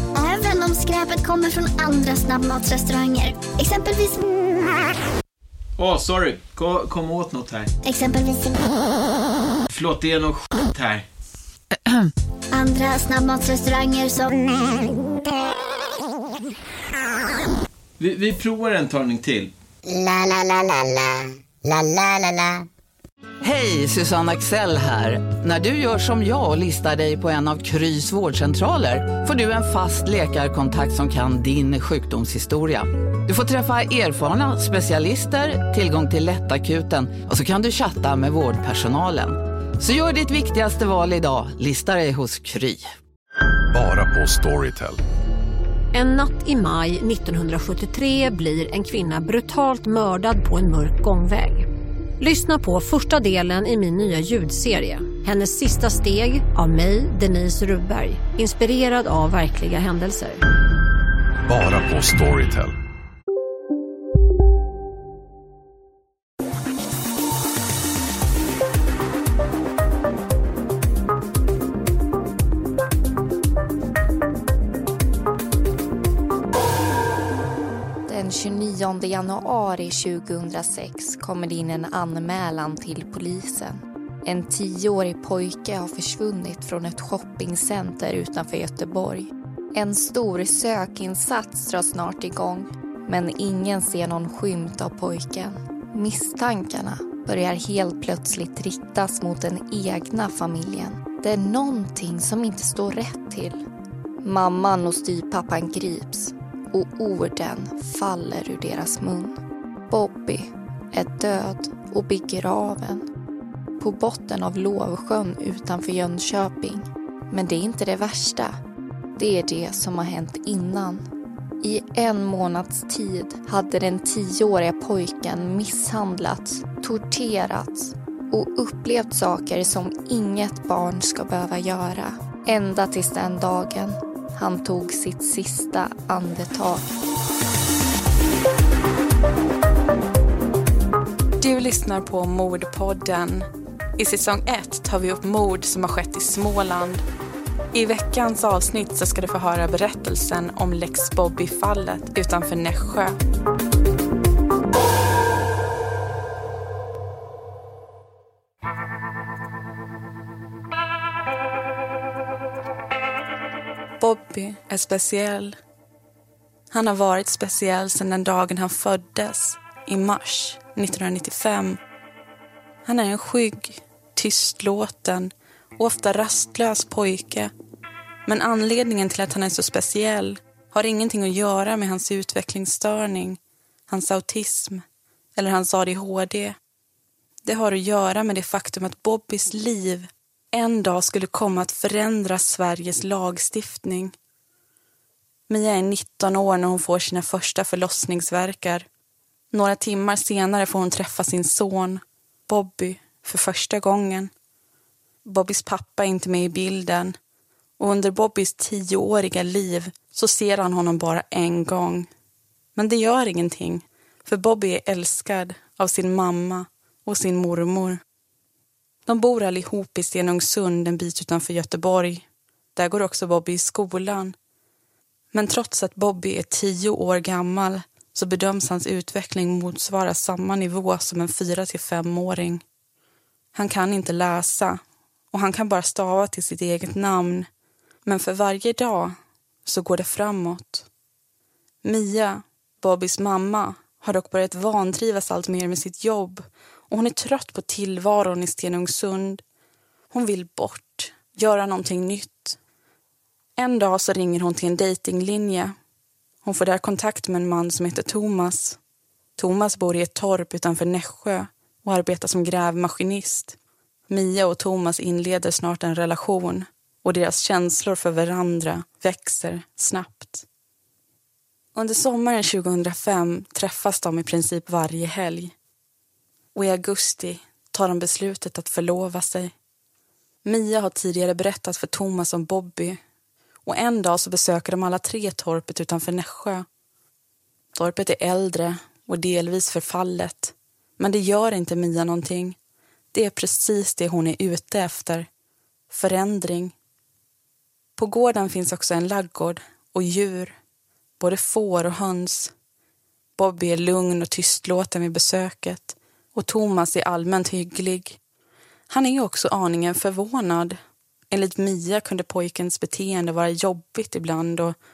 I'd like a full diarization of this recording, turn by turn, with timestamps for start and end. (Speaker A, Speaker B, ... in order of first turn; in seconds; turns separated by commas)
Speaker A: 0.1-4.2, Speaker B: 5.8-7.7, Speaker A: 7.8-8.8, Speaker B: 9.7-11.1, Speaker A: 12.5-14.9, Speaker B: 18.0-19.5, Speaker C: 19.9-22.6, Speaker D: 23.4-42.9, Speaker E: 43.7-45.0, Speaker F: 45.9-51.7, Speaker F: 52.2-60.4, Speaker E: 61.5-62.8, Speaker G: 78.1-103.6, Speaker G: 104.2-109.4, Speaker G: 109.9-113.1, Speaker G: 113.8-118.6, Speaker G: 119.2-121.1, Speaker G: 121.6-136.9, Speaker H: 141.4-147.0, Speaker H: 147.7-153.2, Speaker H: 164.0-165.6, Speaker H: 166.7-171.8, Speaker H: 172.8-177.5, Speaker H: 178.3-184.8, Speaker H: 185.4-186.6, Speaker H: 187.4-194.2, Speaker H: 195.5-198.9, Speaker H: 199.5-204.3, Speaker H: 205.2-207.2, Speaker H: 207.8-212.1, Speaker H: 212.8-218.0, Speaker H: 219.1-224.3, Speaker H: 225.3-232.6, Speaker H: 233.6-234.8, Speaker H: 235.3-237.5, Speaker H: 238.1-240.9, Speaker H: 241.8-249.4, Speaker H: 250.1-252.6, Speaker H: 253.6-255.8, Speaker H: 256.4-258.8, Speaker H: 259.4-263.6, Speaker H: 264.1-270.5, Speaker H: 271.8-275.5, Speaker H: 276.6-279.5, Speaker H: 280.4-283.0, Speaker H: 283.6-286.7, Speaker H: 287.8-292.6, Speaker H: 293.1-295.3, Speaker H: 295.9-296.7, Speaker H: 298.0-300.6, Speaker H: 301.2-302.5, Speaker H: 303.4-308.2, Speaker H: 308.9-310.8, Speaker H: 311.3-314.8